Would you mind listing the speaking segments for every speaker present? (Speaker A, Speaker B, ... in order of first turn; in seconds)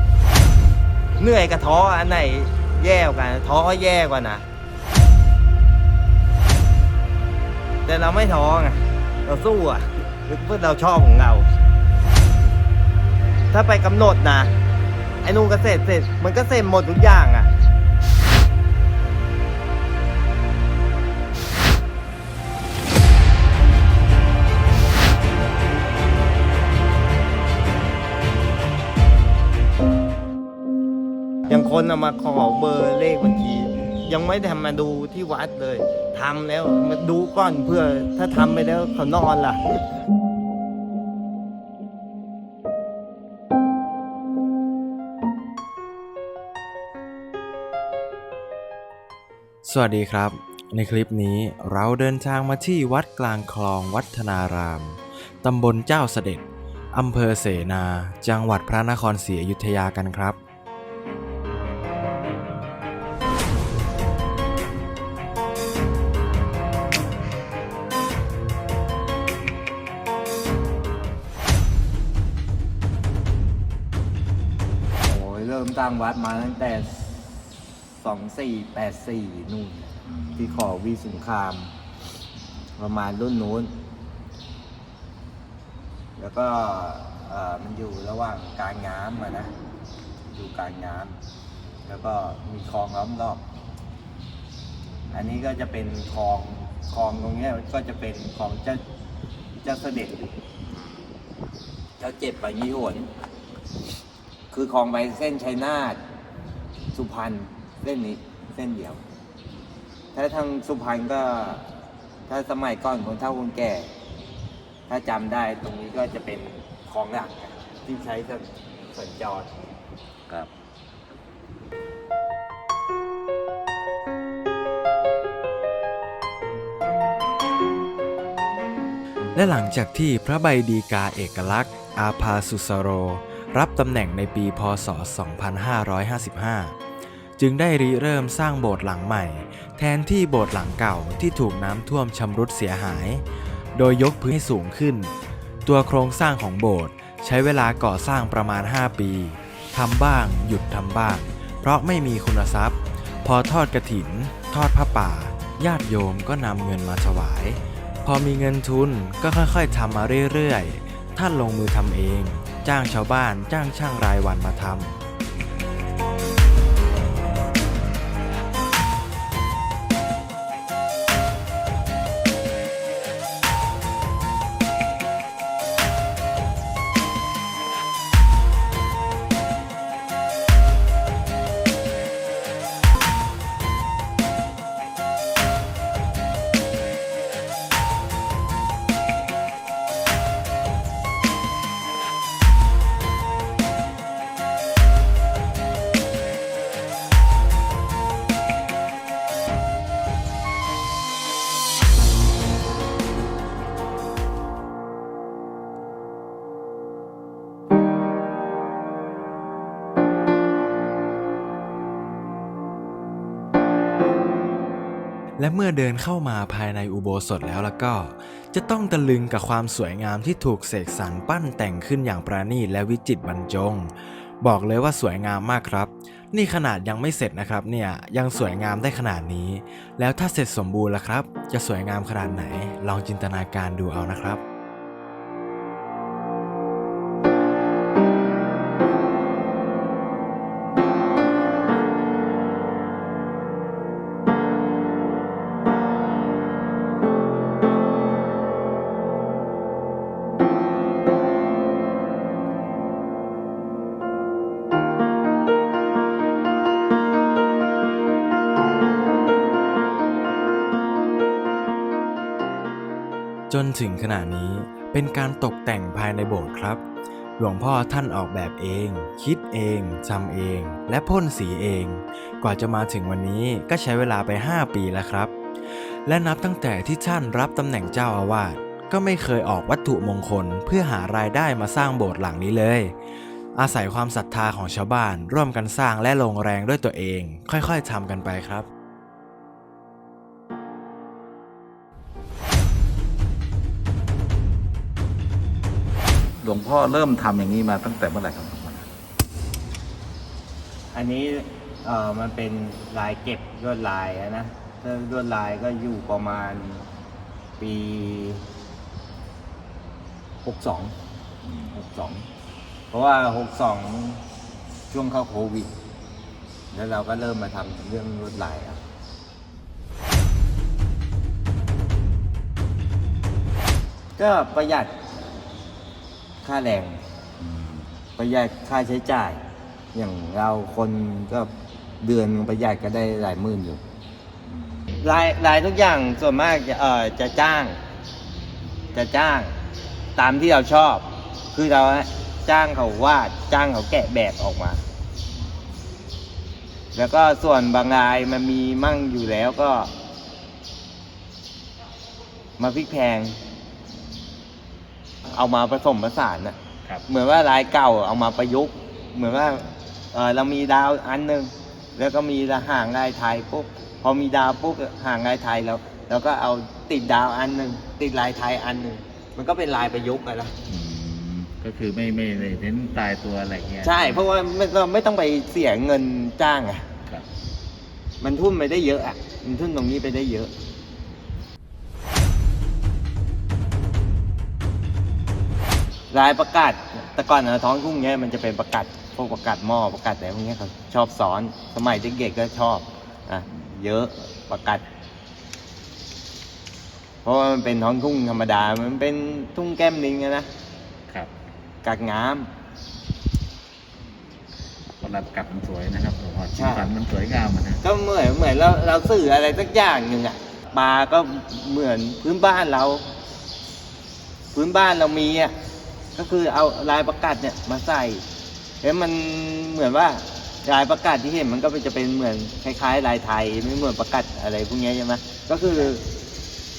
Speaker A: 1.2-4.4, 7.8-11.5, 13.5-14.5, 15.2-17.5, 31.5-39.8, 75.0-81.7, 82.8-83.8, 86.2-89.5, 90.3-91.2, 91.9-93.4, 95.1-98.8, 99.6-100.3, 102.0-103.1, 104.5-106.0, 106.9-109.0, 110.1-111.6, 112.3-113.9, 114.9-119.5, 300.9-306.9, 307.6-308.4, 310.4-310.9, 311.7-312.3, 312.9-314.2, 314.9-315.7, 316.7-318.8, 324.2-324.9, 326.4-327.0, 328.2-329.4, 329.9-331.5, 332.0-333.8, 335.0-337.8, 338.9-339.5, 340.2-344.8, 346.9-349.9, 352.6-353.4, 355.3-356.6, 357.1-370.5, 373.8-376.9, 378.2-380.5, 386.1-394.8, 397.2-400.5, 401.8-402.5, 406.5-406.9, 407.8-413.0, 414.5-415.5, 416.1-418.2, 418.8-426.0
Speaker B: 49.6-60.4, 129.3-136.7, 137.4-143.2, 143.8-145.1, 145.7-165.0, 215.4-234.4, 263.5-266.8, 267.4-275.3, 276.1-282.9, 283.6-288.7
Speaker C: 80.2-80.5, 296.4-298.9, 311.4-311.7, 327.4-327.9, 334.5-334.9, 370.7-374.2, 405.0-407.8